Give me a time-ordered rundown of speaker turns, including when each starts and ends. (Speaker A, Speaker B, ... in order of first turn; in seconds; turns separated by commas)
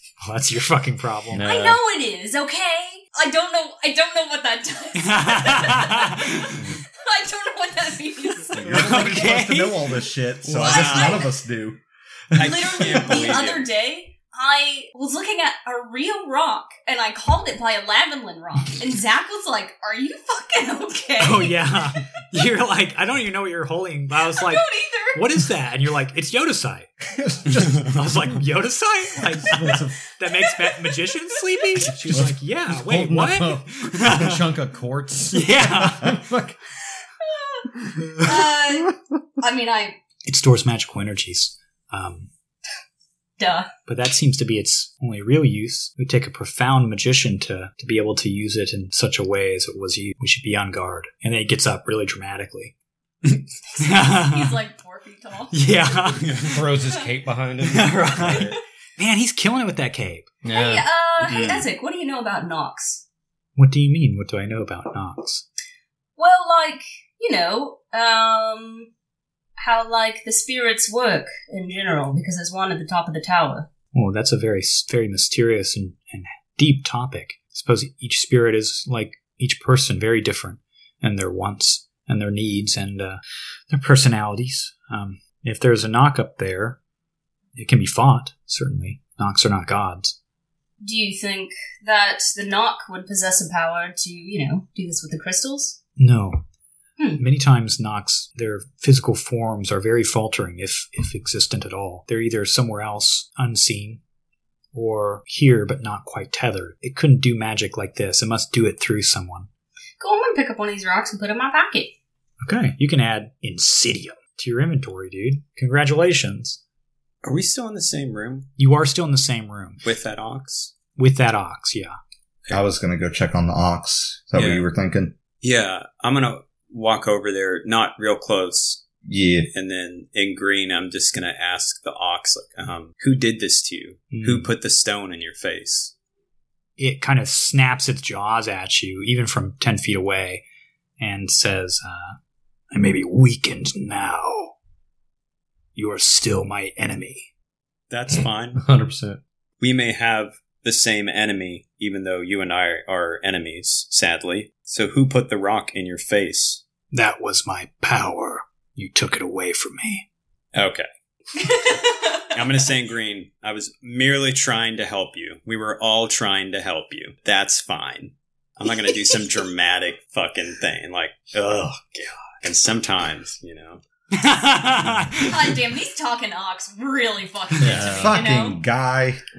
Speaker A: 0.2-1.5, Speaker B: 1.3-1.8, Speaker C: 1.4-8.9, Speaker A: 5.0-6.5, Speaker D: 8.6-11.8, Speaker A: 8.6-9.9, Speaker C: 10.5-11.3, Speaker E: 10.6-11.3, Speaker D: 12.3-13.2, Speaker E: 12.3-13.7, Speaker C: 12.4-21.5, Speaker A: 21.2-26.9, Speaker C: 24.4-25.2, Speaker B: 27.1-28.0, Speaker A: 27.5-34.4, Speaker B: 29.4-30.0, Speaker C: 30.3-30.7, Speaker B: 31.8-36.6, Speaker A: 35.3-36.2, Speaker C: 37.2-40.0, Speaker A: 40.2-42.3, Speaker C: 43.4-43.7, Speaker A: 43.9-52.7, Speaker A: 53.2-54.6, Speaker C: 53.7-57.0, Speaker A: 55.5-56.6, Speaker E: 56.2-56.5, Speaker B: 56.5-58.6, Speaker A: 57.6-60.3, Speaker B: 60.4-60.9, Speaker C: 60.5-63.0, Speaker E: 61.2-61.7, Speaker A: 63.6-65.4, Speaker C: 66.2-68.9, Speaker C: 69.6-73.7, Speaker A: 73.9-83.2, Speaker A: 83.7-86.8, Speaker A: 87.5-90.2, Speaker C: 90.8-95.8, Speaker A: 96.0-96.4, Speaker A: 97.2-104.0, Speaker A: 104.7-109.5, Speaker C: 110.0-111.9, Speaker A: 112.4-116.6, Speaker E: 117.2-118.5, Speaker A: 118.6-119.8, Speaker E: 119.8-120.7, Speaker A: 121.0-122.0, Speaker D: 122.5-125.1, Speaker E: 124.3-124.7, Speaker E: 125.4-128.8, Speaker D: 129.0-129.5, Speaker E: 129.5-135.9, Speaker A: 134.1-134.5, Speaker A: 136.8-140.4, Speaker A: 141.0-142.2, Speaker A: 142.7-144.6, Speaker A: 145.8-147.3, Speaker E: 147.9-148.6, Speaker B: 148.1-149.2, Speaker E: 149.6-156.6, Speaker A: 156.9-160.0, Speaker E: 160.5-160.9, Speaker C: 161.4-162.2, Speaker E: 162.3-173.8, Speaker A: 174.1-175.4, Speaker C: 175.2-178.6, Speaker E: 177.6-178.0, Speaker B: 177.6-178.2, Speaker D: 177.9-179.2